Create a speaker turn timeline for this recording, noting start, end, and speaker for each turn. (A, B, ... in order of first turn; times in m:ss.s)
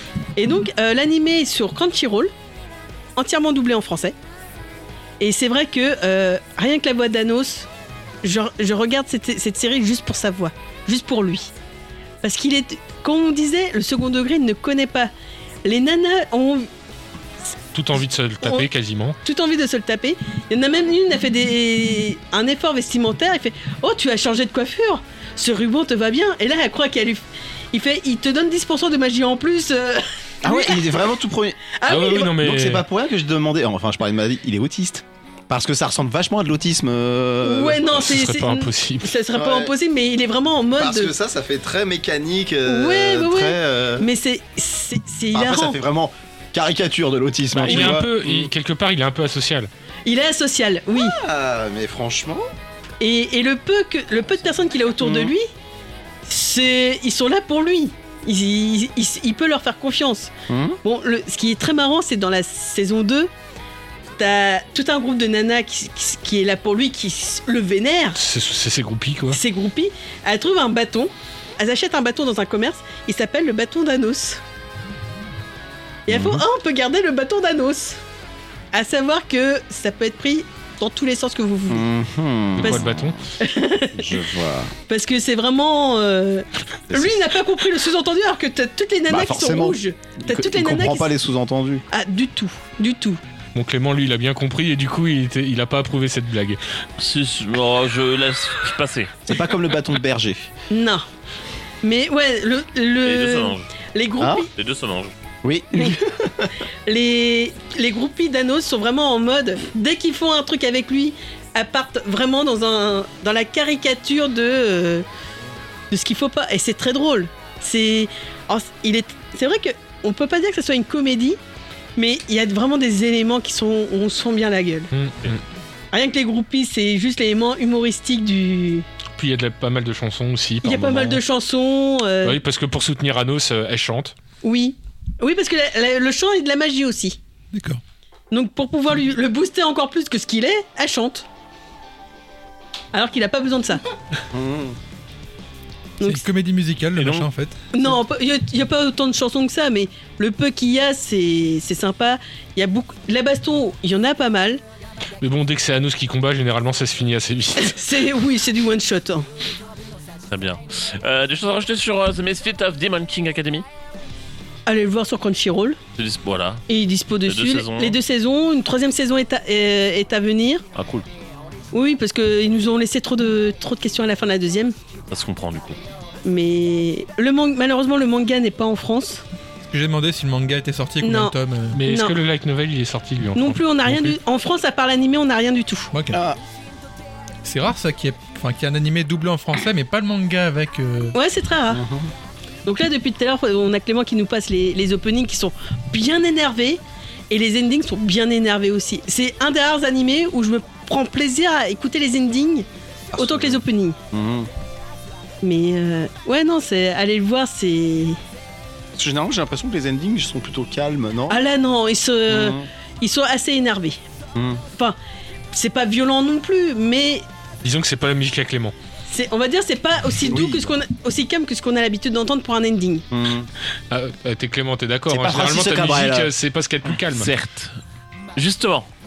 0:00.4-0:02.3 A
0:03.2-0:04.1 A
0:05.2-0:07.7 A
0:08.2-0:11.5 A
0:12.2-0:15.1 A
0:15.6-0:16.7 A
0:17.7-0:19.2 B
0:18.4-0:18.7 A
0:19.2-0:31.0 A
0:30.4-0:31.7 C
0:31.7-0:32.4 A
0:31.9-0:32.8 B
0:32.4-0:37.9 C
0:37.4-0:41.1 A
0:37.9-0:39.2 B
0:39.3-0:39.7 C
0:40.8-0:44.1 C
0:42.6-0:45.8 A
0:45.3-0:48.5 C
0:47.5-0:49.7 B
0:47.6-0:48.0 A
0:50.0-0:51.2 A
0:50.9-0:52.4 C
0:53.0-0:55.5 A
0:55.0-0:55.3 C
0:56.2-1:00.3 A
1:00.5-1:00.8 C
1:00.8-1:03.3 A
1:04.2-1:08.2 A
1:08.2-1:09.4 B
1:09.3-1:14.4 A
1:16.1-1:18.0 A
1:16.1-1:16.4 C
1:18.7-1:21.8 A
1:21.7-1:23.2 C
1:22.6-1:23.2 B
1:22.6-1:22.9 A
1:23.4-1:24.3 A
1:23.9-1:24.7 C
1:24.9-1:31.1 A
1:26.9-1:27.2 C
1:29.1-1:31.8 C
1:31.9-1:33.2 A
1:33.5-1:36.6 B
1:37.0-1:39.2 D
1:39.3-1:40.5 C
1:40.7-1:41.0 A
1:41.8-1:44.5 A
1:43.0-1:43.7 D
1:44.2-1:44.5 C
1:44.5-1:45.1 D
1:45.4-1:46.5 C
1:46.8-1:55.0 A
1:55.9-2:01.4 A
2:02.0-2:04.9 A
2:04.9-2:05.4 B
2:05.9-2:08.9 A
2:09.2-2:11.2 B
2:10.6-2:12.4 A
2:12.2-2:14.1 B
2:14.4-2:17.2 A
2:17.5-2:17.8 E
2:18.3-2:21.2 A
2:22.9-2:23.8 A
2:24.3-2:24.8 C
2:26.0-2:26.2 A
2:26.0-2:27.6 E
2:27.0-2:27.3 D
2:27.7-2:34.6 A
2:35.2-2:37.8 B
2:37.6-2:39.3 A
2:40.3-2:43.6 D
2:44.7-2:45.8 A
2:46.0-2:46.6 D
2:46.7-2:50.6 A
2:47.2-2:48.0 D
2:50.7-2:51.0 D
2:51.7-2:54.7 A
2:55.1-2:55.8 D
2:56.2-2:59.2 A
2:59.7-3:01.8 E
3:01.0-3:01.3 A
3:01.7-3:04.2 B
3:01.8-3:02.2 A
3:03.3-3:05.9 A
3:05.9-3:06.2 E
3:06.1-3:06.4 C
3:07.4-3:11.2 E
3:11.1-3:11.8 A
3:11.7-3:12.1 C
3:12.6-3:22.6 A
3:23.1-3:24.5 C
3:23.2-3:24.0 A
3:25.4-3:28.2 A
3:29.0-3:31.4 C
3:31.3-3:34.0 A
3:32.3-3:32.7 C
3:34.3-3:34.6 C
3:35.5-3:37.2 A
3:37.6-3:38.7 B
3:39.1-3:43.1 A
3:40.3-3:40.6 C
3:43.1-3:43.5 C
3:43.9-3:47.3 B
3:45.1-3:46.3 C
3:47.1-3:47.8 D
3:48.4-3:48.9 D